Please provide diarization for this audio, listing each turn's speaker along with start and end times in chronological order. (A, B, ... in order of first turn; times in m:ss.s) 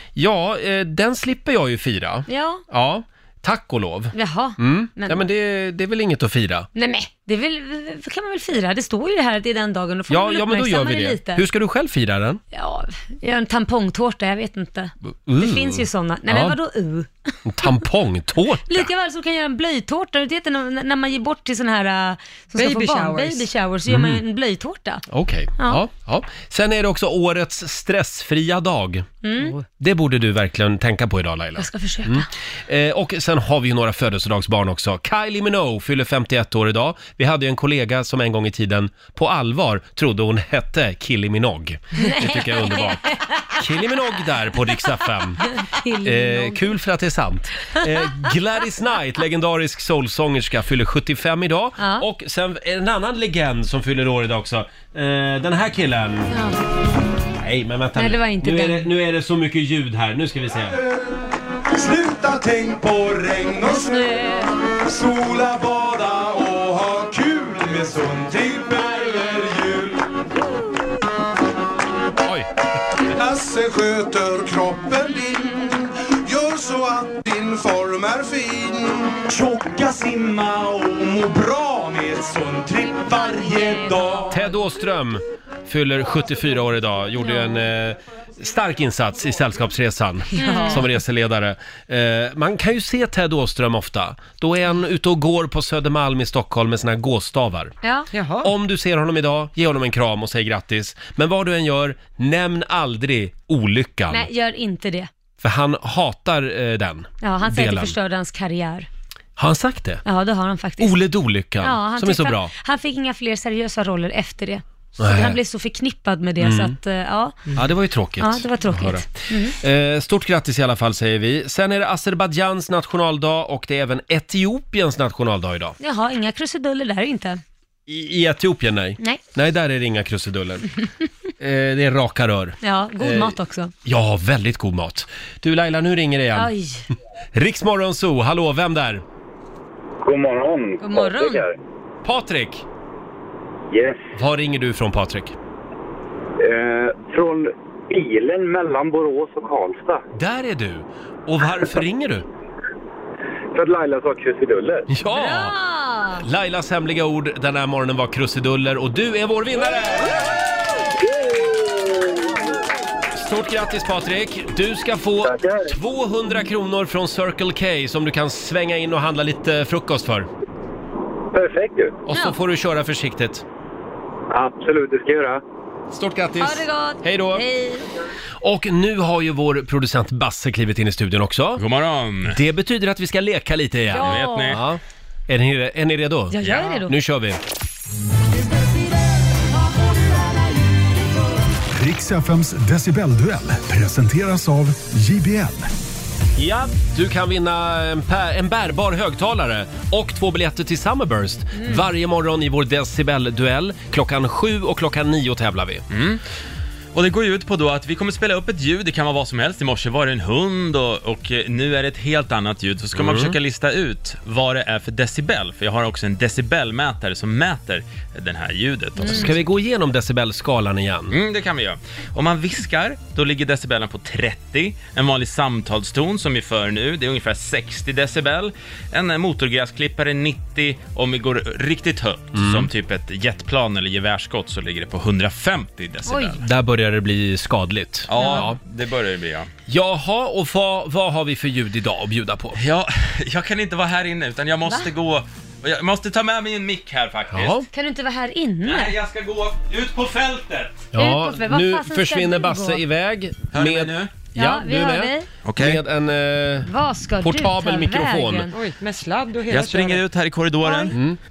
0:00.2-0:06.7 A
0:02.3-0:02.6 B
0:04.1-0:05.2 B
0:06.7-0:11.4 B
0:10.1-0:12.4 A
0:12.5-0:17.1 B
0:15.0-0:16.6 A
0:17.4-0:18.9 A
0:18.6-0:25.0 B
0:22.6-0:23.5 C
0:23.9-0:24.2 A
0:25.1-0:29.1 A
0:25.6-0:25.8 B
0:29.2-0:29.6 B
0:29.8-0:43.0 A
0:31.6-0:32.3 B
0:42.0-0:43.6 B
0:43.6-0:45.4 A
0:45.5-0:46.7 B
0:46.0-0:56.3 A
0:47.8-0:48.0 B
0:51.8-0:52.0 B
0:56.3-0:56.6 B
0:57.4-1:00.8 A
0:58.0-0:58.9 B
1:00.8-1:01.1 D
1:01.7-1:04.2 D
1:03.6-1:04.5 B
1:04.8-1:10.0 D
1:13.1-1:24.3 D
1:23.5-1:24.0 B
1:24.3-1:37.8 A
1:27.2-1:27.7 B
1:30.4-1:30.9 B
1:30.4-1:30.8 C
1:37.8-1:38.1 B
1:38.1-1:38.5 C
1:38.4-1:44.3 A
1:44.1-1:45.1 B
1:45.4-1:48.0 A
1:47.2-1:48.9 B
1:49.4-1:50.0 A
1:50.0-1:51.0 B
1:50.8-1:52.5 A
1:51.6-1:57.5 B
1:55.0-1:55.4 A
1:56.4-1:56.8 A
1:57.6-2:05.8 A
1:58.2-1:59.6 B
2:05.8-2:07.4 B
2:07.9-2:10.7 A
2:11.4-2:16.5 A
2:12.6-2:13.7 B
2:16.3-2:16.9 B
2:17.3-2:19.0 A
2:20.0-2:21.5 E
2:20.8-2:21.5 B
2:22.0-2:22.6 A
2:23.7-2:24.1 E
2:24.1-2:25.4 A
2:26.4-2:30.0 E
2:30.1-2:32.2 A
2:33.5-2:34.9 E
2:34.9-2:35.6 A
2:35.0-2:36.2 B
2:36.2-2:40.2 A
2:43.1-2:50.3 A
2:45.2-2:45.7 E
2:51.3-2:52.0 E
2:52.1-2:53.4 A
2:52.1-2:52.4 B
2:54.3-2:55.4 E
2:55.9-2:57.4 A
2:56.4-2:57.9 B
2:58.4-3:01.6 A
3:01.6-3:02.4 F
3:02.3-3:07.4 A
3:03.9-3:04.6 B
3:03.9-3:04.6 F
3:06.3-3:06.9 B
3:06.4-3:06.8 F
3:11.7-3:15.7 G
3:16.4-3:25.8 A
3:21.6-3:21.9 B
3:25.9-3:26.2 F
3:26.9-3:39.4 F
3:33.0-3:33.4 A
3:39.0-3:39.3 B
3:39.0-3:41.1 A
3:41.1-3:56.4 F
3:52.3-3:52.7 A
3:56.1-3:56.3 B
3:56.3-3:58.6 A
3:58.1-3:59.5 F
3:58.1-3:58.5 B
3:59.7-4:02.6 A
4:02.6-4:07.6 F
4:07.3-4:07.7 A
4:07.7-4:08.9 B
4:08.6-4:10.9 F
4:10.9-4:18.5 A
4:11.0-4:12.8 B
4:13.5-4:14.1 F
4:14.3-4:15.3 B
4:15.4-4:15.8 F
4:16.6-4:18.5 B
4:18.5-4:20.0 C
4:19.5-4:21.0 F
4:20.6-4:20.9 B
4:20.9-4:21.2 A